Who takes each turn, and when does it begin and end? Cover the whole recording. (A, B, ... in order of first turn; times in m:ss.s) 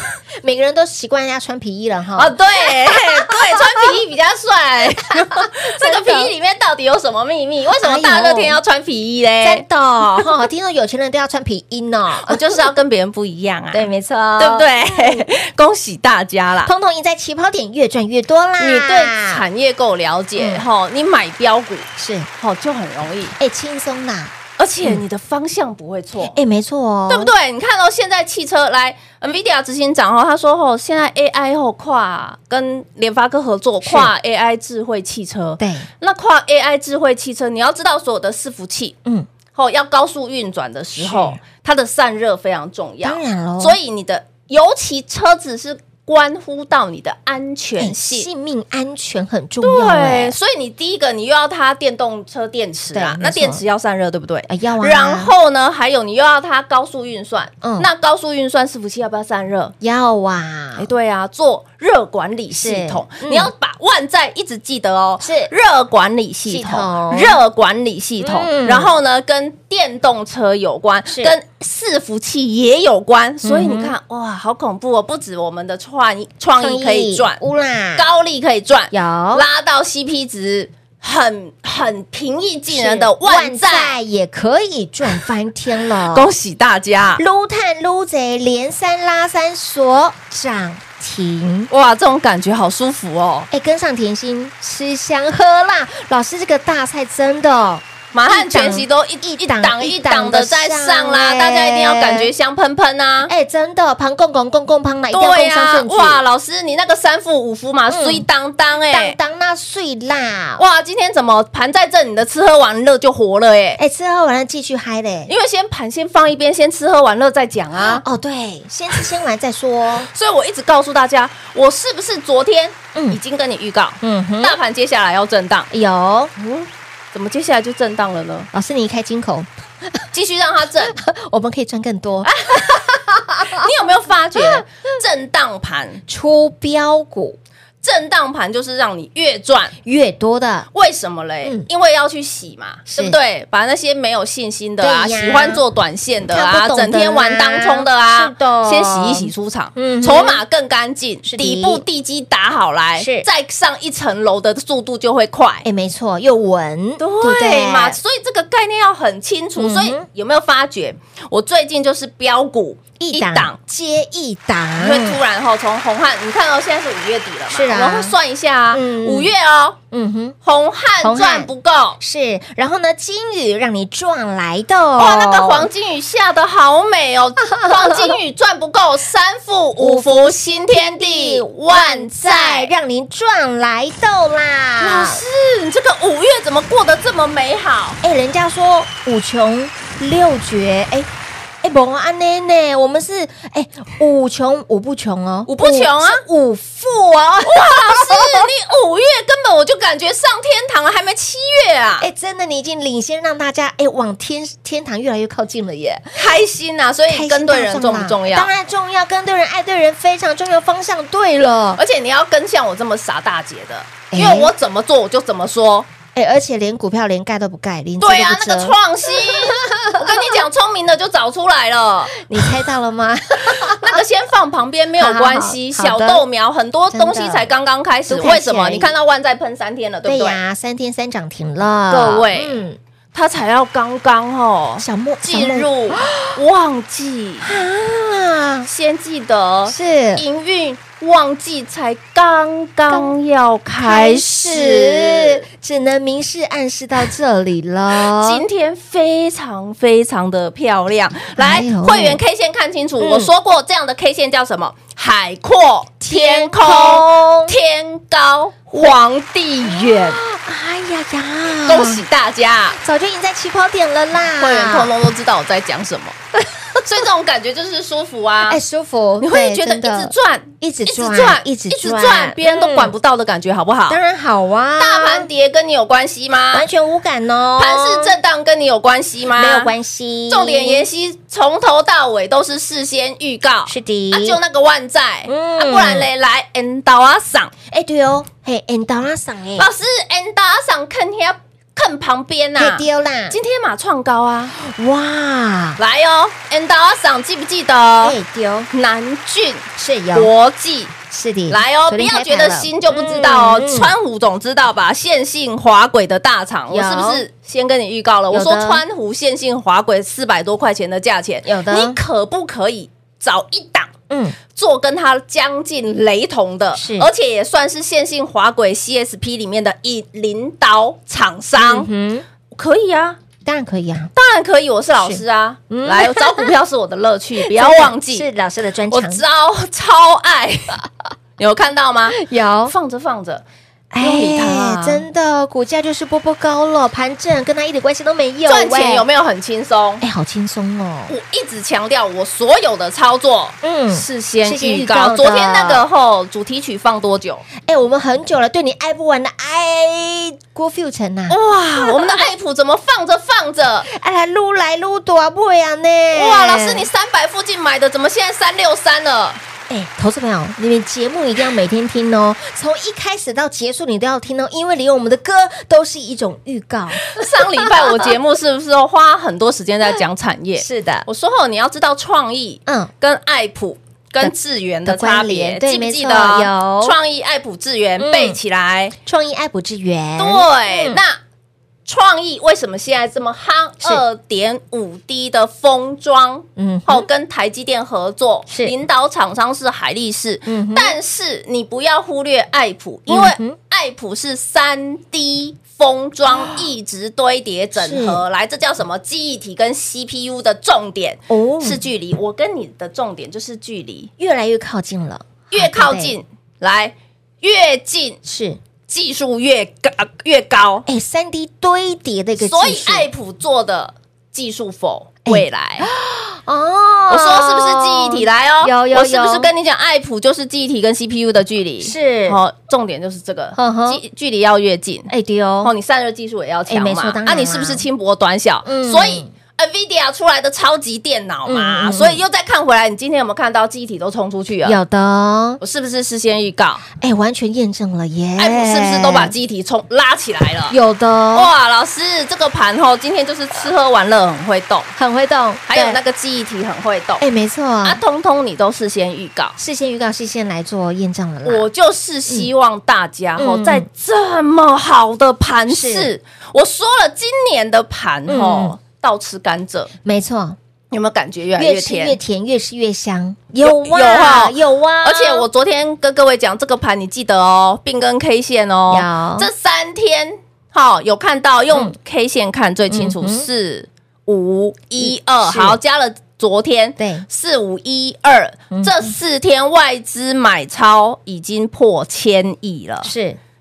0:00.4-0:03.9 A
0:02.2-0:09.6 B
0:05.1-0:06.3 A
0:07.8-0:08.6 A
0:09.4-0:12.6 A
0:12.2-0:16.7 B
0:13.7-0:15.2 A
0:16.6-0:19.4 A
0:18.6-0:23.3 B
0:20.4-0:20.6 A
0:22.0-0:22.3 A
0:23.4-0:25.0 A
0:24.6-0:26.4 B
0:26.2-0:27.3 A
0:27.1-0:39.0 B
0:33.8-0:34.1 A
0:35.6-0:35.9 A
0:39.5-0:48.3 B
0:41.0-0:41.4 A
0:43.0-0:43.8 A
0:47.8-0:50.3 A
0:49.6-0:59.7 B
0:52.9-0:53.6 A
0:54.5-0:55.3 A
0:57.6-0:57.9 A
0:59.8-1:00.9 A
1:00.8-1:17.4 B
1:02.5-1:03.5 A
1:05.2-1:05.5 A
1:06.5-1:07.4 A
1:08.2-1:08.9 A
1:11.1-1:11.4 A
1:13.4-1:13.9 A
1:16.6-1:18.1 A
1:18.0-1:24.0 B
1:18.9-1:19.4 A
1:22.7-1:26.3 A
1:26.0-1:27.2 B
1:27.2-1:31.7 A
1:31.7-1:33.5 B
1:33.5-1:42.3 A
1:38.1-1:43.3 B
1:43.2-1:46.2 A
1:45.1-1:49.2 B
1:47.9-1:48.2 A
1:48.9-1:50.6 A
1:50.6-1:53.8 B
1:53.8-1:55.3 A
1:55.3-1:58.0 B
1:57.8-2:00.1 A
2:00.1-2:05.7 B
2:02.9-2:03.2 A
2:04.0-2:04.6 A
2:05.7-2:06.3 A
2:06.4-2:08.5 B
2:08.5-2:10.0 A
2:10.1-2:11.0 B
2:10.8-2:13.7 A
2:12.2-2:12.9 B
2:13.4-2:16.0 B
2:14.3-2:14.6 A
2:16.1-2:17.4 A
2:17.8-2:19.7 B
2:19.8-2:20.7 A
2:20.7-2:35.6 B
2:22.9-2:23.2 A
2:24.8-2:25.6 A
2:26.3-2:30.4 A
2:31.2-2:31.8 A
2:33.0-2:33.3 A
2:35.6-2:38.0 A
2:37.0-2:43.6 B
2:39.6-2:40.0 A
2:43.0-2:45.2 A
2:44.8-2:49.8 B
2:47.5-2:48.1 A
2:48.7-2:49.3 A
2:49.9-2:50.4 A
2:50.4-2:52.0 B
2:51.0-2:55.7 A
2:55.0-3:02.7 B
2:57.5-2:58.1 A
2:59.8-3:05.2 A
3:04.8-3:08.0 B
3:08.0-3:11.1 A
3:11.6-3:18.5 A
3:15.5-3:16.2 B
3:17.4-3:22.1 B
3:22.0-3:26.3 A
3:26.1-3:28.5 B
3:27.1-3:31.8 A
3:31.8-3:35.9 B
3:34.1-3:34.5 A
3:36.1-3:40.2 A
3:38.0-3:42.2 B
3:42.2-3:44.0 A
3:43.6-3:50.4 B
3:45.0-3:46.2 A
3:46.9-3:47.5 A
3:48.1-3:48.9 A
3:50.0-3:52.8 A
3:51.9-3:52.6 B
3:53.1-3:57.6 B
3:54.8-3:56.4 A
3:57.4-3:58.7 A
3:58.6-4:05.4 B
3:59.7-4:00.2 A
4:03.8-4:08.4 A
4:08.0-4:20.2 B
4:11.4-4:12.2 A
4:13.0-4:13.3 A
4:16.0-4:17.6 A
4:19.6-4:22.0 A
4:21.6-4:22.8 B
4:22.8-4:24.9 A
4:24.4-4:26.2 B
4:26.8-4:28.6 B
4:28.4-4:32.9 A
4:29.2-4:34.0 B
4:33.9-4:35.3 A
4:34.8-4:36.7 B
4:36.5-4:38.2 A
4:37.6-4:39.7 B
4:39.3-4:40.9 A
4:40.3-4:47.5 B
4:43.7-4:44.4 A
4:45.3-4:46.1 A
4:47.7-4:49.7 A
4:49.6-4:54.5 B
4:52.6-4:53.4 A
4:54.5-4:55.8 A
4:55.8-4:58.2 B
4:58.0-4:58.7 A
4:58.7-5:00.9 B
4:59.8-5:00.3 A
5:01.1-5:03.9 A
5:01.5-5:13.9 B
5:06.7-5:07.2 A
5:08.3-5:08.8 A
5:11.4-5:12.0 A
5:14.1-5:14.4 A
5:14.5-5:21.9 B
5:16.7-5:17.1 A
5:21.6-5:22.2 A
5:22.5-5:23.2 B
5:23.4-5:24.1 A
5:24.1-5:28.2 B
5:25.0-5:26.5 A
5:27.4-5:29.2 A
5:28.9-5:30.8 B
5:31.4-5:33.4 B
5:32.1-5:32.7 A
5:33.9-5:39.0 A
5:34.0-5:35.0 B
5:38.4-5:40.0 B
5:40.0-5:41.1 A
5:41.1-5:47.4 B
5:43.6-5:45.8 A
5:47.6-5:52.3 A
5:51.3-5:53.9 B
5:53.9-5:56.9 A
5:56.1-5:59.4 B
5:59.7-6:08.1 A
6:07.1-6:18.9 B
6:10.6-6:11.1 A
6:14.8-6:17.0 A
6:18.0-6:18.4 A
6:19.0-6:21.0 A
6:20.2-6:21.2 B
6:21.8-6:44.1 B
6:26.6-6:27.1 A
6:28.5-6:28.7 A
6:30.4-6:30.9 A
6:33.1-6:33.6 A
6:36.3-6:36.6 A
6:37.8-6:38.2 A
6:41.3-6:41.8 A
6:44.2-6:46.2 A
6:45.5-6:48.2 B
6:48.2-6:48.6 A
6:48.9-6:50.8 B
6:50.8-6:53.1 A
6:52.4-6:55.9 B
6:55.2-6:59.5 A
6:57.1-7:05.1 B
7:01.8-7:02.4 A
7:03.5-7:04.0 A
7:05.1-7:05.7 A
7:05.6-7:14.8 B
7:06.7-7:07.8 A
7:08.6-7:09.3 A
7:11.4-7:12.2 A
7:14.6-7:15.6 A
7:15.6-7:16.8 B
7:17.0-7:19.3 A
7:18.4-7:20.8 B
7:20.7-7:21.5 A
7:21.3-7:24.9 B
7:25.0-7:26.0 A
7:25.7-7:27.2 B
7:27.2-7:28.0 A
7:27.8-7:29.6 B
7:29.6-7:31.7 A
7:31.4-7:39.9 B
7:33.4-7:33.9 A
7:35.7-7:36.1 A
7:38.3-7:38.7 A
7:40.0-7:40.6 A
7:40.9-7:42.2 B
7:41.6-7:45.5 A
7:43.6-8:03.1 B
7:48.9-7:49.5 A
7:52.9-7:53.5 A
7:55.0-7:55.8 A
7:57.0-7:57.2 A
7:58.7-7:59.1 A
8:03.0-8:03.4 A